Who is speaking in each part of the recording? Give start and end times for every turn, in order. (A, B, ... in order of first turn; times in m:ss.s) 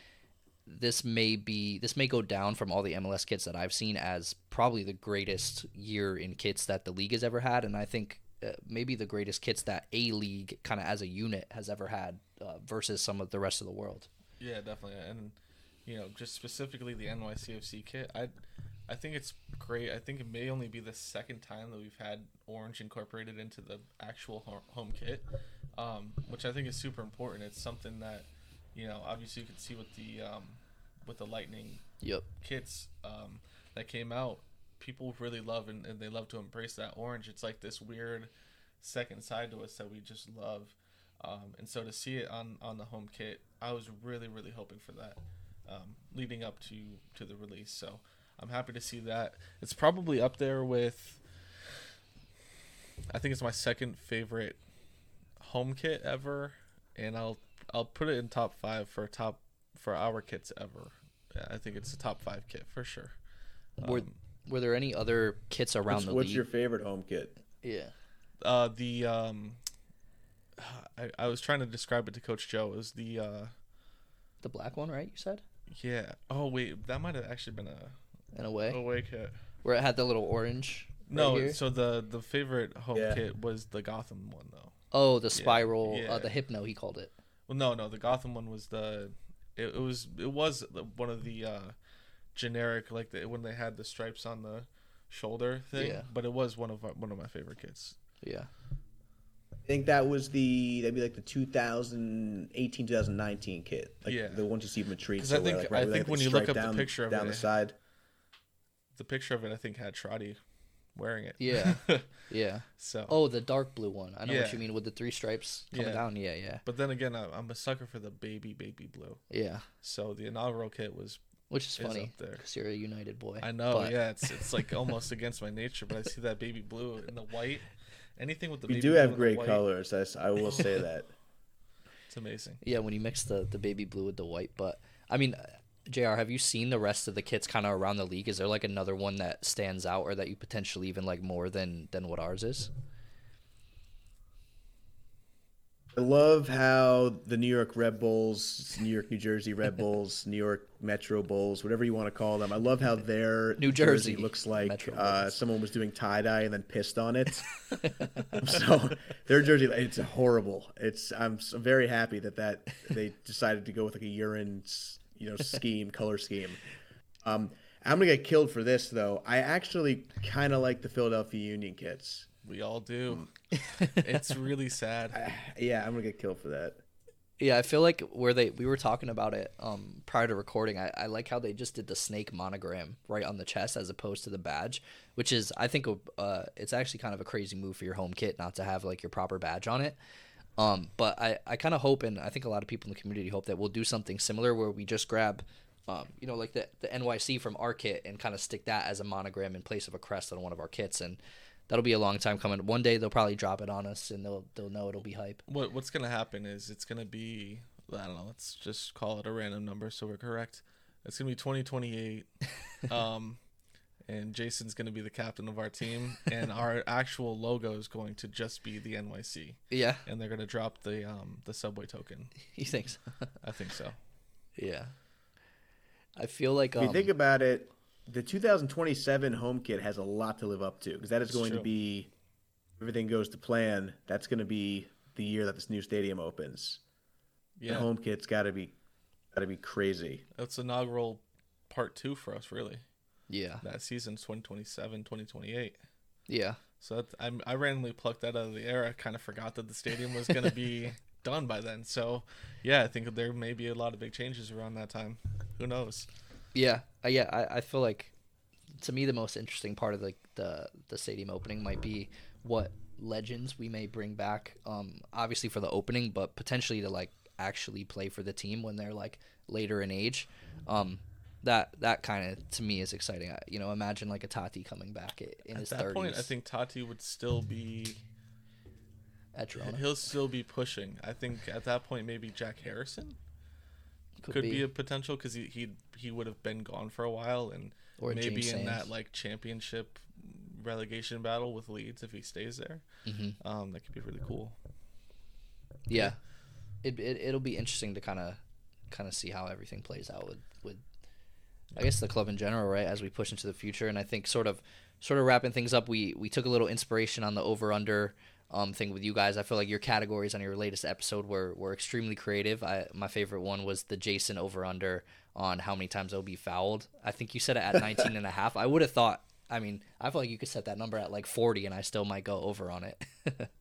0:00.7-0:14.1 A
0:14.4-0:18.3 B
0:18.9-0:31.8 B
0:32.4-0:38.3 B
0:38.8-0:51.2 B
0:53.1-0:54.6 B
0:55.4-1:03.2 B
1:03.8-1:04.2 B
1:03.8-1:06.4 A
1:05.9-1:07.4 C
1:07.6-1:07.9 A
1:08.4-1:09.6 B
1:10.6-1:13.5 B
1:14.4-1:15.4 A
1:15.7-1:18.0 B
1:18.3-1:18.8 A
1:18.7-1:19.4 B
1:19.6-1:21.6 A
1:21.1-1:24.8 B
1:22.9-1:23.2 C
1:24.9-1:27.1 A
1:25.3-1:26.3 B
1:27.5-1:31.8 B
1:32.4-1:38.0 B
1:35.7-1:36.1 A
1:38.2-1:38.5 A
1:39.7-1:47.8 C
1:44.1-1:44.5 B
1:45.2-1:47.5 B
1:49.0-1:50.4 B
1:50.9-1:52.1 B
1:51.4-1:56.6 A
1:52.8-1:53.2 B
1:54.3-1:54.6 B
1:55.7-1:56.1 B
1:56.6-1:59.3 B
1:59.3-1:59.7 A
1:59.8-2:01.2 B
2:01.5-2:04.6 A
2:01.8-2:02.4 B
2:03.4-2:09.6 B
2:08.7-2:11.1 C
2:12.1-2:12.6 B
2:12.6-2:22.7 A
2:25.9-2:37.6 C
2:33.6-2:35.4 A
2:37.8-2:38.4 A
2:38.3-2:46.6 C
2:47.2-2:52.3 C
2:52.4-2:55.2 B
2:53.7-2:54.0 A
2:55.1-2:56.8 C
2:57.4-3:10.0 A
3:10.6-3:25.4 A
3:25.5-3:33.4 B
3:34.1-3:42.4 B
3:39.7-3:40.0 A
3:42.4-3:43.4 A
3:43.4-3:44.0 B
3:44.6-3:44.9 A
3:46.2-3:47.1 A
3:46.8-3:52.1 C
3:51.3-3:51.7 B
3:52.8-3:56.8 C
3:57.6-3:57.9 B
3:57.7-3:58.7 C
3:59.3-4:00.2 C
4:00.4-4:02.8 B
4:03.3-4:03.6 A
4:03.6-4:05.8 B
4:06.3-4:06.6 A
4:06.8-4:16.1 B
4:16.5-4:18.1 A
4:18.8-4:36.3 A
4:35.6-4:38.0 B
4:39.4-4:39.8 A
4:39.6-4:43.2 B
4:44.2-4:44.6 A
4:44.3-4:52.8 B
4:48.0-4:48.9 A
4:53.1-4:53.4 A
4:53.4-4:54.6 B
4:55.9-4:56.2 A
4:56.8-5:00.8 A
5:01.8-5:23.5 A